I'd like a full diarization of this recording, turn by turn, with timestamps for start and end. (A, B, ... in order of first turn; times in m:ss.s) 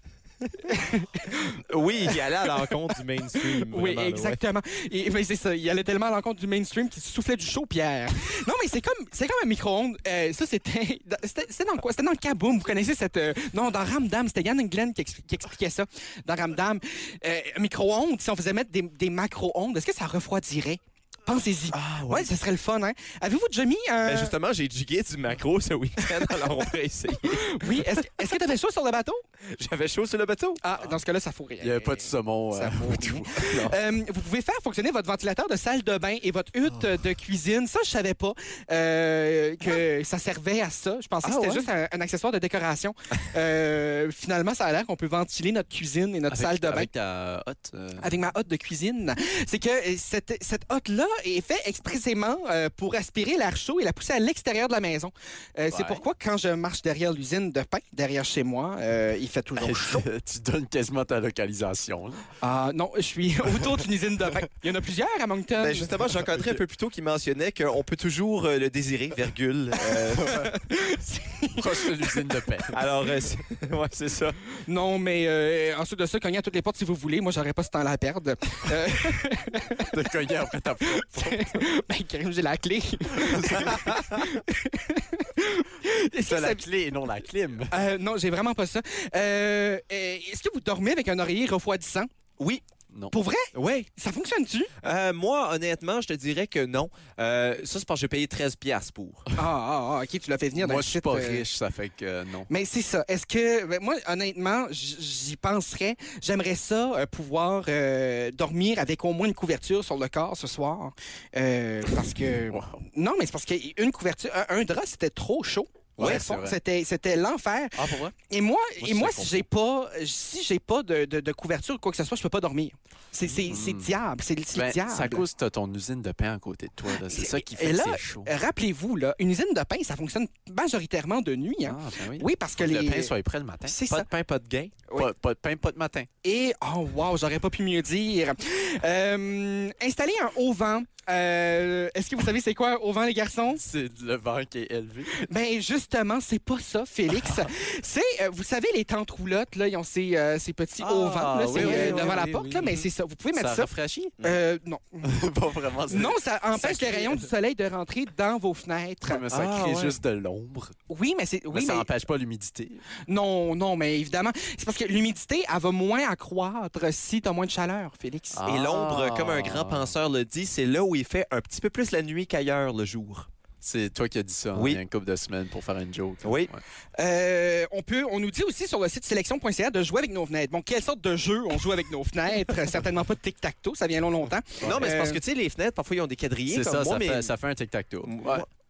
0:00.6-0:02.2 A
0:01.6-0:04.4 B
0:03.4-0:24.3 A
0:21.7-0:22.3 B
0:24.0-0:28.0 B
0:27.3-0:29.2 A
0:29.4-0:30.6 B
0:30.6-0:46.9 A
0:31.6-0:33.6 C
0:33.4-0:33.7 B
0:41.2-0:41.7 C
0:46.3-0:48.1 C
0:48.0-1:00.0 A
0:55.7-0:56.0 C
0:59.6-1:02.2 C
1:02.4-1:06.0 A
1:05.6-1:10.4 B
1:10.1-1:10.5 C
1:10.3-1:12.2 A
1:11.6-1:12.8 C
1:12.7-1:14.4 B
1:14.7-1:19.9 A
1:19.9-1:21.6 C
1:20.8-1:26.6 A
1:23.2-1:24.1 C
1:26.3-1:27.8 C
1:27.7-1:32.1 A
1:32.4-1:32.6 B
1:33.1-1:34.7 A
1:33.5-1:33.9 B
1:34.8-1:39.2 B
1:39.4-1:41.4 A
1:40.6-1:42.5 C
1:42.5-2:05.2 A
1:52.5-1:52.8 C
1:56.0-1:56.6 C
1:56.0-1:56.2 B
1:57.8-1:58.1 C
1:58.8-1:59.5 C
2:03.3-2:03.9 C
2:04.6-2:08.3 C
2:07.0-2:13.1 A
2:11.7-2:13.8 C
2:13.7-2:14.1 A
2:13.9-2:14.8 B
2:15.0-2:16.1 C
2:16.2-2:23.6 A
2:23.6-2:25.2 C
2:25.1-2:35.2 A
2:27.2-2:27.5 C
2:30.8-2:32.8 C
2:31.5-2:32.8 B
2:33.3-2:34.2 C
2:35.0-2:37.3 C
2:35.9-2:39.2 A
2:39.0-2:40.8 C
2:39.3-2:40.0 B
2:40.9-2:41.9 A
2:41.5-2:42.8 C
2:43.1-2:48.4 A
2:48.3-2:49.9 C
2:48.5-2:53.3 B
2:53.6-2:56.6 C
2:54.5-2:54.8 B
2:56.2-2:56.5 B
2:57.0-3:05.2 A
3:04.6-3:07.3 B
3:06.5-3:08.4 C
3:08.0-3:08.5 B